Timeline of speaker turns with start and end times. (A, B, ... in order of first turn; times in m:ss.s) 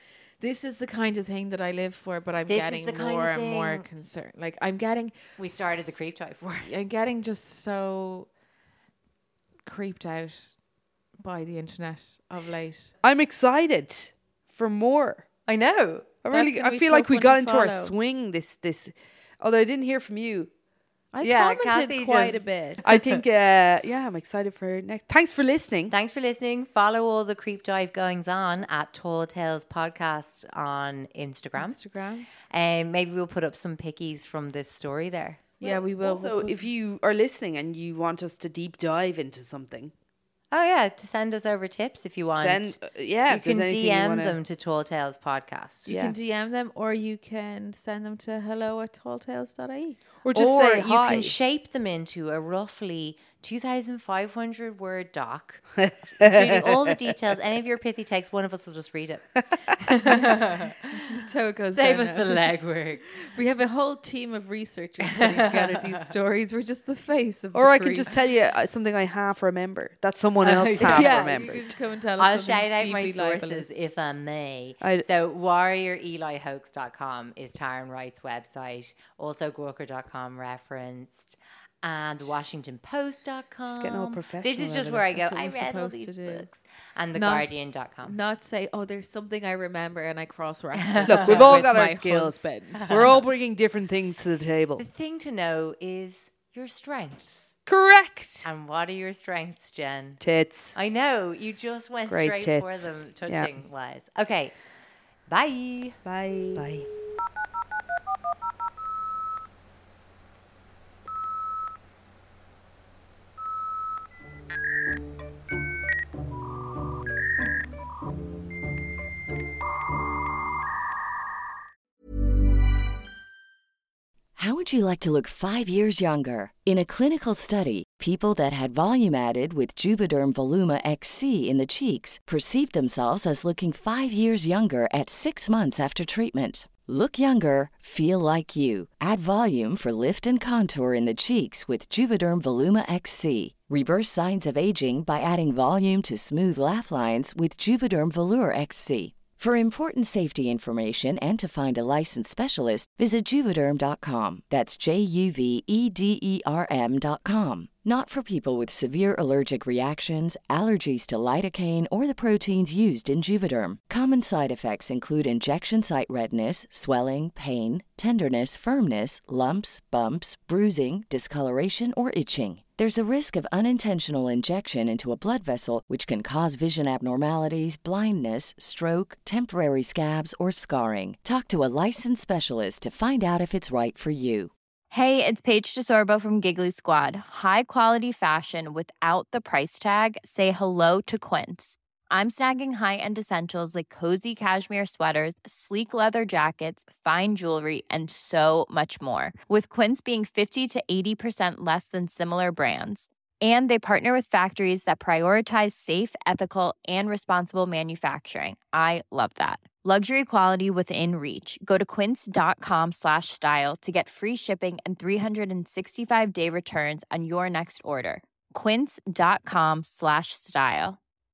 0:00.4-0:06.0 A
0:02.5-0:03.9 B
0:05.4-0:06.7 B
0:06.6-0:08.3 A
0:09.6-0:10.5 A
0:11.2-0:12.9 A
0:13.0-0:15.3 C
0:15.5-0:16.1 B
0:16.2-0:20.5 C
0:16.3-0:17.9 A
0:21.1-0:22.8 A
0:21.2-0:23.2 B
0:22.8-0:25.9 C
0:25.9-0:31.8 B
0:31.6-0:32.3 A
0:32.3-0:35.4 B
0:35.6-0:36.7 A
0:35.6-0:39.9 C
0:40.5-0:45.9 B
0:42.2-0:44.4 C
0:45.9-0:50.0 A
0:45.9-0:46.2 C
0:50.2-0:51.4 C
0:50.3-0:55.6 B
0:55.8-0:56.7 C
0:56.2-1:00.8 B
1:00.1-1:00.4 A
1:00.9-1:08.2 A
1:01.7-1:03.0 B
1:05.0-1:06.0 B
1:07.5-1:11.7 C
1:10.4-1:11.2 B
1:10.8-1:13.7 A
1:12.2-1:28.2 B
1:14.8-1:15.1 C
1:23.7-1:25.1 C
1:25.1-1:26.5 A
1:27.1-1:33.2 A
1:30.8-1:31.7 B
1:31.0-1:34.8 C
1:32.7-1:33.2 B
1:34.8-1:37.5 B
1:37.7-1:38.5 C
1:38.4-1:40.2 B
1:40.2-1:40.8 C
1:40.7-1:44.6 B
1:42.1-1:43.5 C
1:45.3-1:46.0 B
1:46.0-1:46.9 C
1:46.6-1:46.8 B
2:04.4-3:04.5 D
3:04.9-3:41.0 E